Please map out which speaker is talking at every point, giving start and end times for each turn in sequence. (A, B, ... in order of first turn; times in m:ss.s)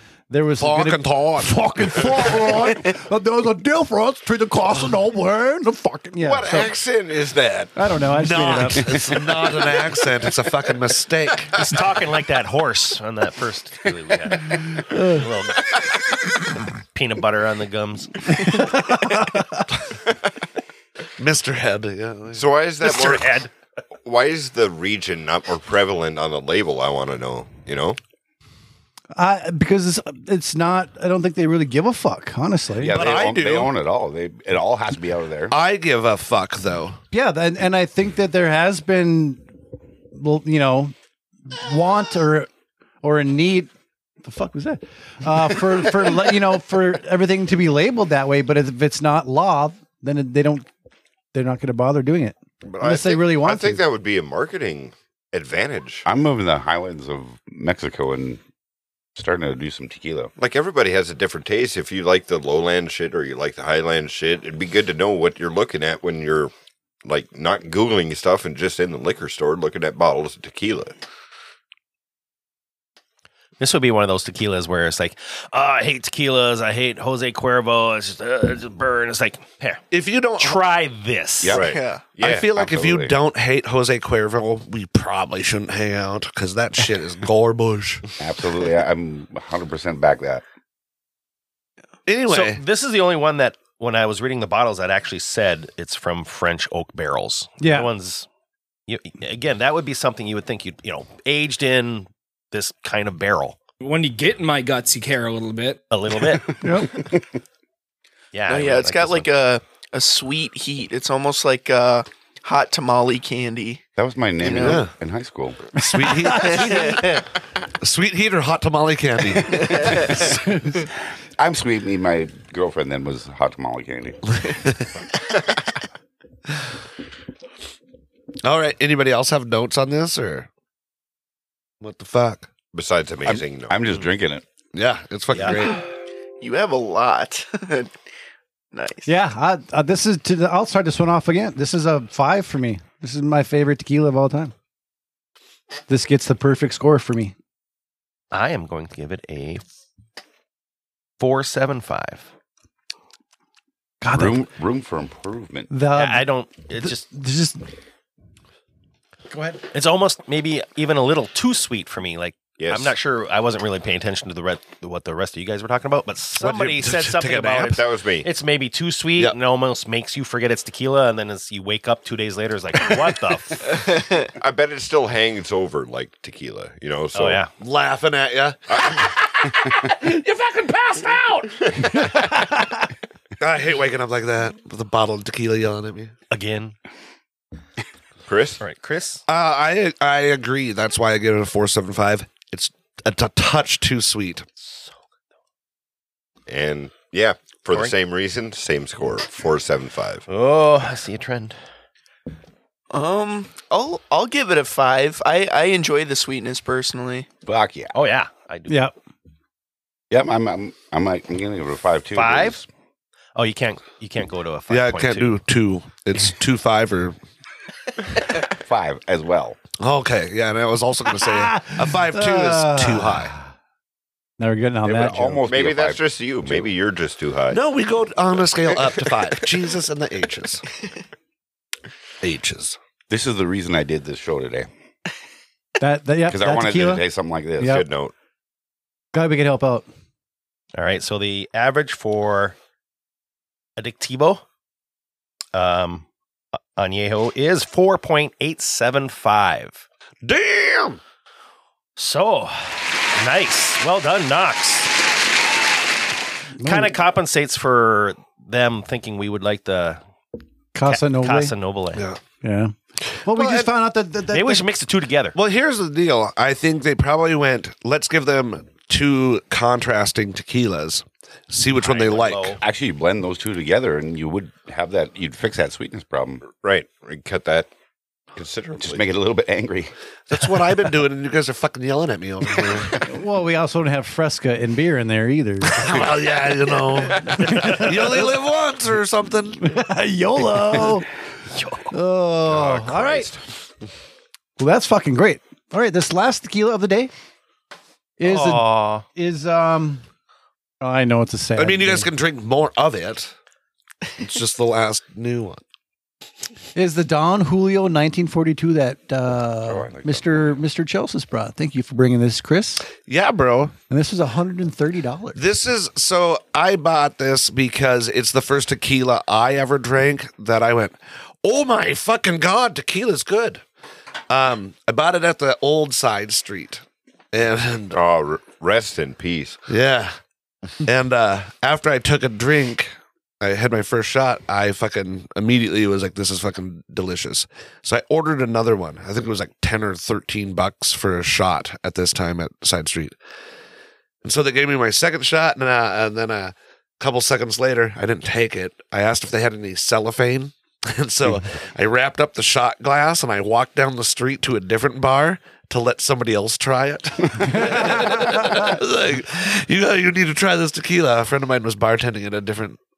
0:00.3-0:06.7 A
0:00.6-0:02.4 B
0:06.2-0:07.7 C
0:07.8-0:09.1 A
0:08.1-0:11.6 B
0:11.5-0:15.8 D
0:14.6-0:15.2 A
0:16.9-0:18.7 D
0:18.4-0:19.6 A
0:21.2-0:22.4 B
0:22.3-0:23.5 C
0:22.8-0:23.5 D
0:24.0-0:28.0 C
0:29.1-0:33.0 A
0:32.8-0:35.5 E
0:32.9-0:33.7 B
0:35.5-0:37.0 B
0:37.1-0:39.4 A
0:40.1-0:40.9 A
0:41.5-0:42.5 A
0:43.0-0:43.7 A
0:44.2-0:50.7 A
0:51.3-0:53.8 A
0:52.6-0:56.0 C
0:56.1-0:58.4 E
0:59.2-1:00.3 E
1:00.4-1:06.5 C
1:07.0-1:11.0 C
1:13.6-1:19.8 D
1:19.9-1:20.6 B
1:20.4-1:21.6 D
1:21.4-1:21.7 E
1:21.5-1:22.5 C
1:21.5-1:22.1 F
1:22.2-1:28.0 B
1:22.5-1:23.1 E
1:28.2-1:30.4 E
1:32.0-1:32.6 B
1:32.3-1:38.2 D
1:37.6-1:37.9 A
1:38.9-1:43.6 D
1:43.8-1:45.8 G
1:45.9-1:46.6 D
1:46.6-1:46.9 A
1:46.6-1:47.2 E
1:48.3-1:49.3 D
1:48.5-1:53.8 F
1:54.0-1:55.6 E
1:54.4-1:54.8 F
1:54.5-1:54.9 B
1:55.7-1:57.2 B
1:55.8-1:57.1 A
1:56.4-1:57.1 F
1:57.8-2:00.2 B
1:59.6-2:00.3 E
1:59.7-2:00.1 F
2:00.3-2:00.7 A
2:01.4-2:04.2 E
2:04.3-2:05.0 B
2:08.4-2:10.5 B
2:11.8-2:12.5 B
2:12.7-2:13.8 C
2:13.2-2:14.4 E
2:14.7-2:15.8 B
2:15.3-2:15.6 D
2:16.4-2:17.9 F
2:18.7-2:19.1 F
2:19.0-2:24.5 A
2:25.9-2:27.3 A
2:28.3-2:29.6 D
2:31.2-2:32.3 D
2:34.0-2:34.4 A
2:34.1-2:35.7 E
2:35.7-2:37.6 A
2:35.9-2:37.0 D
2:39.3-2:39.6 A
2:39.7-2:53.8 D
2:42.6-2:42.9 C
2:46.4-2:47.8 B
2:47.7-2:48.3 C
2:53.8-2:54.2 F
2:54.4-2:57.4 C
2:57.1-2:57.5 D
2:57.6-3:02.8 B
2:58.7-2:59.0 C
3:03.4-3:06.1 B
3:06.3-3:06.7 D
3:08.2-3:08.6 C
3:08.6-3:09.2 D
3:09.3-3:14.4 B
3:16.5-3:20.2 C
3:20.3-3:21.6 D
3:22.9-3:27.3 F
3:27.4-3:27.9 E
3:27.9-3:28.9 D
3:28.7-3:28.9 A
3:30.1-3:32.7 E
3:32.1-3:32.6 D
3:33.4-3:35.4 D
3:34.7-3:37.2 B
3:38.6-3:39.6 E
3:39.8-3:43.3 B
3:41.2-3:43.4 A
3:44.4-3:45.4 A
3:44.8-3:46.7 E
3:45.4-3:47.6 C
3:47.5-3:50.7 B
3:52.2-3:52.8 B
3:53.1-3:54.7 E
3:55.8-3:57.0 A
3:56.3-3:57.8 E
3:57.6-3:58.1 C
3:59.1-3:59.8 A
4:00.7-4:02.5 D
4:03.8-4:04.4 D
4:05.5-4:06.0 D
4:06.8-4:09.8 D
4:10.2-4:11.0 B
4:12.0-4:15.0 D
4:16.6-4:16.9 A
4:16.6-4:20.0 D
4:20.7-4:21.5 A
4:20.8-4:22.0 D
4:21.9-4:22.2 B
4:22.4-4:22.7 A
4:23.2-4:24.7 A
4:23.3-4:23.7 B
4:24.3-4:25.3 D
4:25.3-4:32.6 B
4:31.8-4:32.6 D
4:32.6-4:36.4 E
4:36.5-4:37.7 C
4:38.3-4:39.1 C
4:38.8-4:39.9 E
4:40.3-4:43.0 B
4:43.0-4:45.9 A
4:45.7-4:49.8 B
4:47.2-4:48.0 A
4:49.6-4:51.1 A
4:51.5-4:51.9 D
4:51.9-4:53.3 A
4:52.4-4:53.4 C
4:54.6-4:57.1 A
4:58.2-5:00.0 A
4:58.2-4:59.0 D
5:00.8-5:02.1 A
5:01.6-5:03.3 B
5:04.2-5:05.6 B
5:06.7-5:12.9 A
5:09.6-5:10.6 E
5:13.0-5:13.7 B
5:13.9-5:15.4 A
5:15.3-5:23.6 B
5:24.3-5:28.0 B
5:27.9-5:29.6 C
5:29.7-5:30.1 B
5:30.8-5:43.2 B
5:44.2-6:02.8 B
5:57.5-5:58.7 A